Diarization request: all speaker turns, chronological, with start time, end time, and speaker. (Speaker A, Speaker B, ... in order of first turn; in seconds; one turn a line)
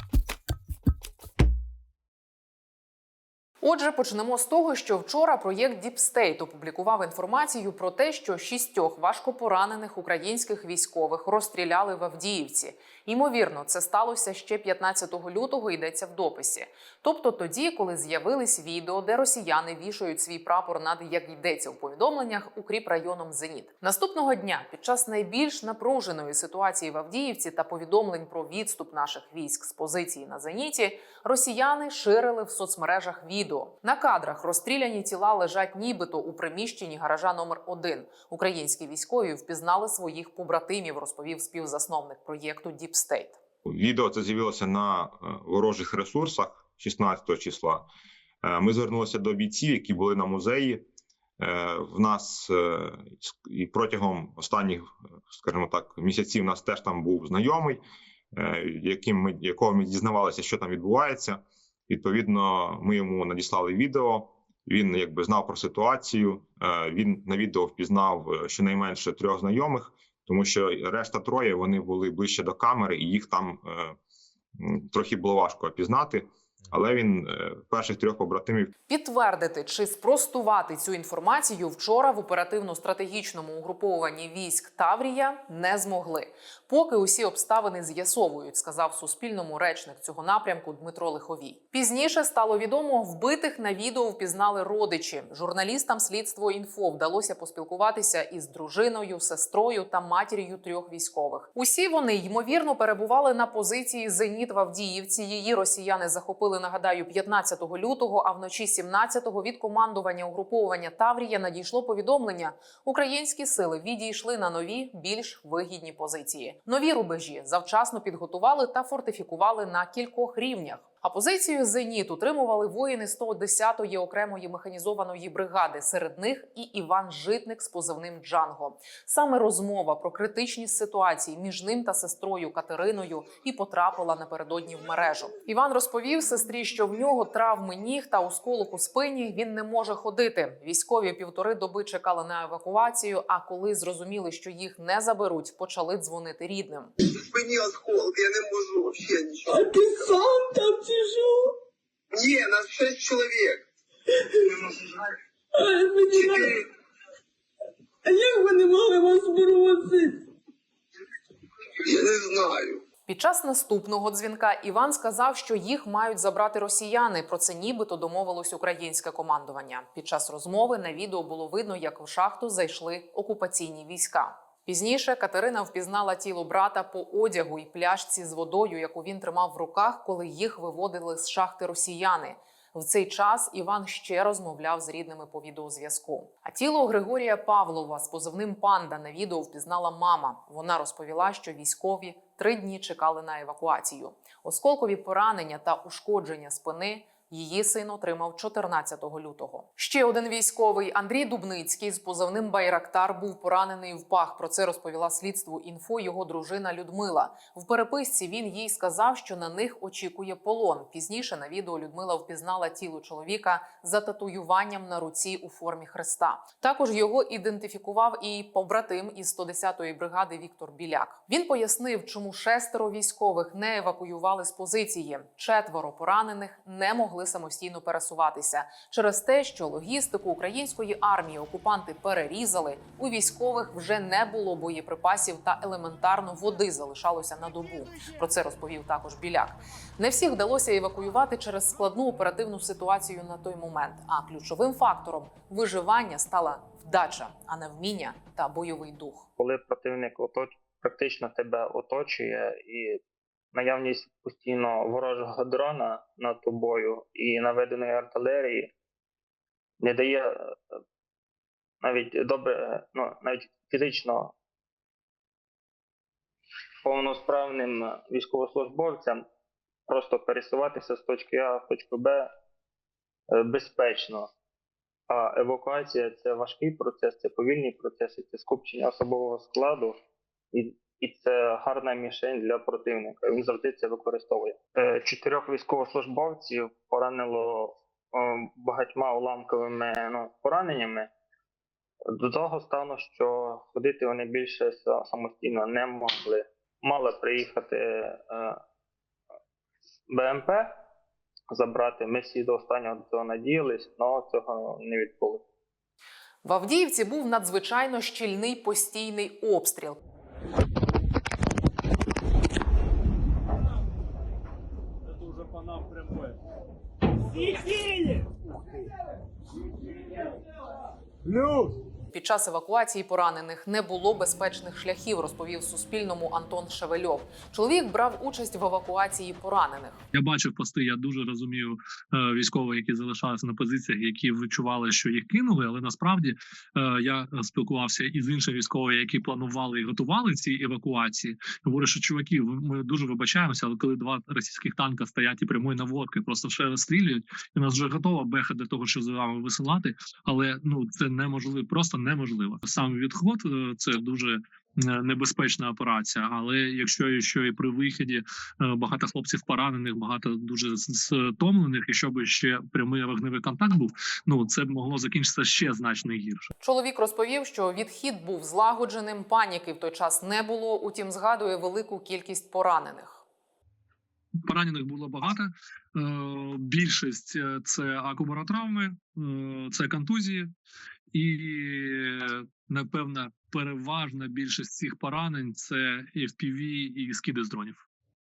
Speaker A: 3.6-43.4
Speaker B: 43.7-47.9
Speaker B: 48.4-50.8
Speaker B: 51.4-57.8
Speaker B: 58.3-74.0
Speaker B: 74.6-78.7
Speaker A: 78.9-146.9
Speaker C: 147.1-149.6
Speaker D: 149.5-151.6
Speaker C: 152.1-153.6
Speaker D: 154.6-154.9
Speaker D: 155.5-156.6
Speaker C: 156.1-156.7
Speaker D: 158.1-160.3
Speaker C: 161.8-162.8
Speaker A: 163.1-249.3
Speaker E: 249.4-253.0
Speaker E: 253.5-258.7
Speaker E: 259.8-260.8
Speaker E: 261.8-264.3
Speaker E: 266.8-269.3
Speaker E: 269.9-272.3
Speaker E: 273.3-274.3
Speaker E: 275.1-280.0
Speaker E: 280.5-291.1
Speaker E: 292.1-298.6
Speaker E: 300.1-300.7
Speaker E: 301.5-305.4
Speaker A: 306.4-310.0
Speaker A: 322.1-330.0
Speaker F: 330.1-366.5
Speaker A: 366.6-373.2
Speaker F: 374.4-380.5
Speaker F: 381.1-387.9